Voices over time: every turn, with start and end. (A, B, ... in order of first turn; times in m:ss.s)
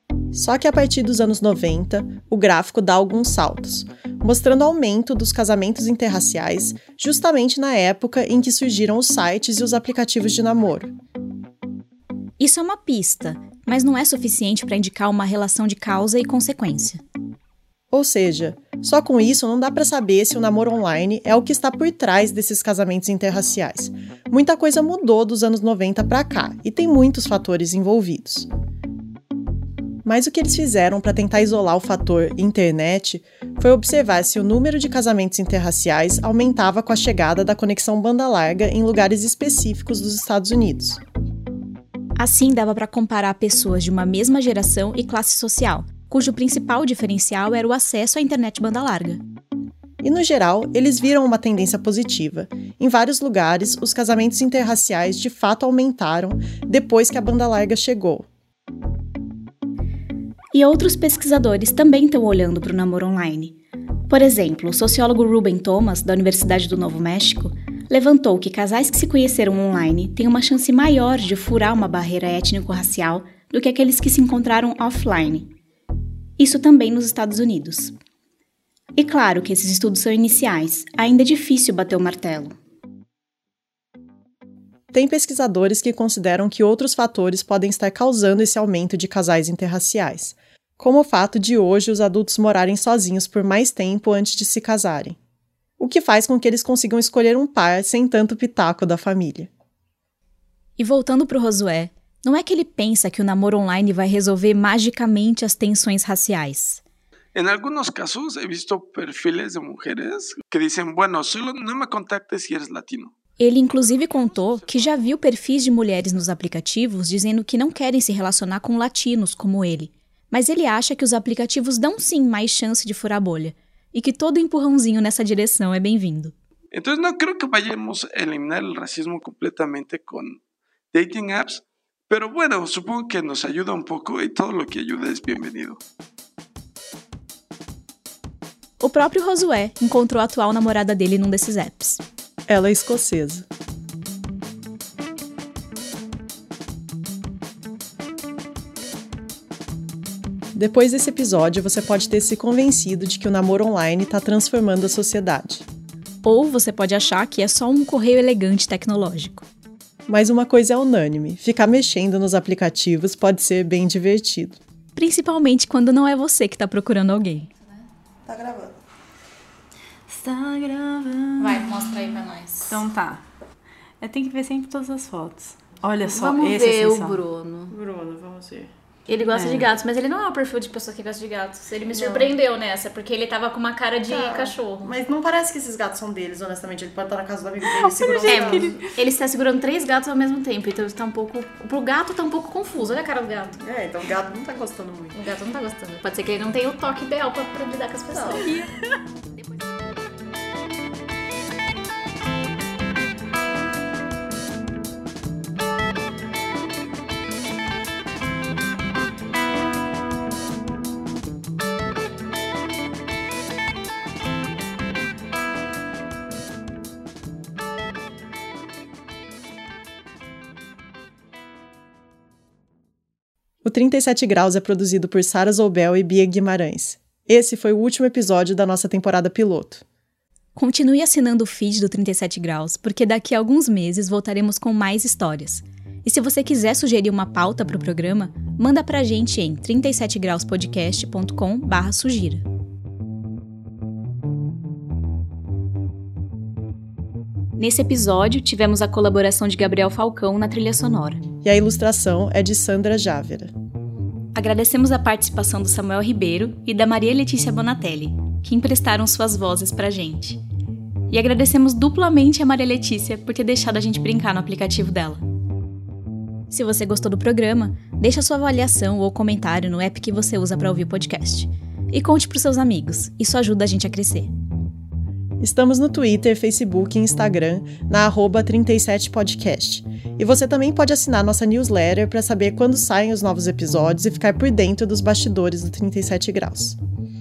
0:00.3-0:10.9 A
0:12.4-0:17.0 B
0:17.9-0:28.5 A
0:30.0-0:41.0 A
0:42.2-0:49.2 B
0:50.0-0:58.3 A
1:00.5-1:03.6 B
1:04.1-1:15.5 B
1:16.4-1:18.0 B
1:19.0-1:22.5 B
1:24.9-1:35.2 A
1:35.8-1:39.5 A
1:40.8-1:46.8 B
1:47.4-1:53.1 C
1:53.4-2:06.3 B
1:53.7-1:55.1 C
2:06.7-2:10.4 C
2:10.9-2:15.8 C
2:18.8-2:22.0 B
2:22.5-2:23.5 A
2:30.5-2:35.7 A
2:36.2-2:39.5 B
2:40.1-2:44.6 A
2:45.0-2:47.5 B
2:48.3-2:48.8 A
2:50.1-2:53.2 D
2:51.4-2:52.9 E
2:54.0-2:57.2 D
2:56.0-2:57.7 E
2:57.7-2:58.7 A
2:59.1-3:04.9 E
2:59.1-2:59.7 D
3:01.9-3:02.3 A
3:04.1-3:08.8 A
3:08.1-3:13.6 E
3:13.6-3:15.2 A
3:15.1-3:18.7 E
3:18.1-3:18.5 A
3:43.6-3:49.8 A
3:50.6-4:02.4 B
4:07.6-4:11.2 B
4:11.4-4:13.5 A
4:14.3-4:20.4 B
4:21.1-4:25.2 B
4:26.5-4:34.3 B
4:35.4-4:46.8 A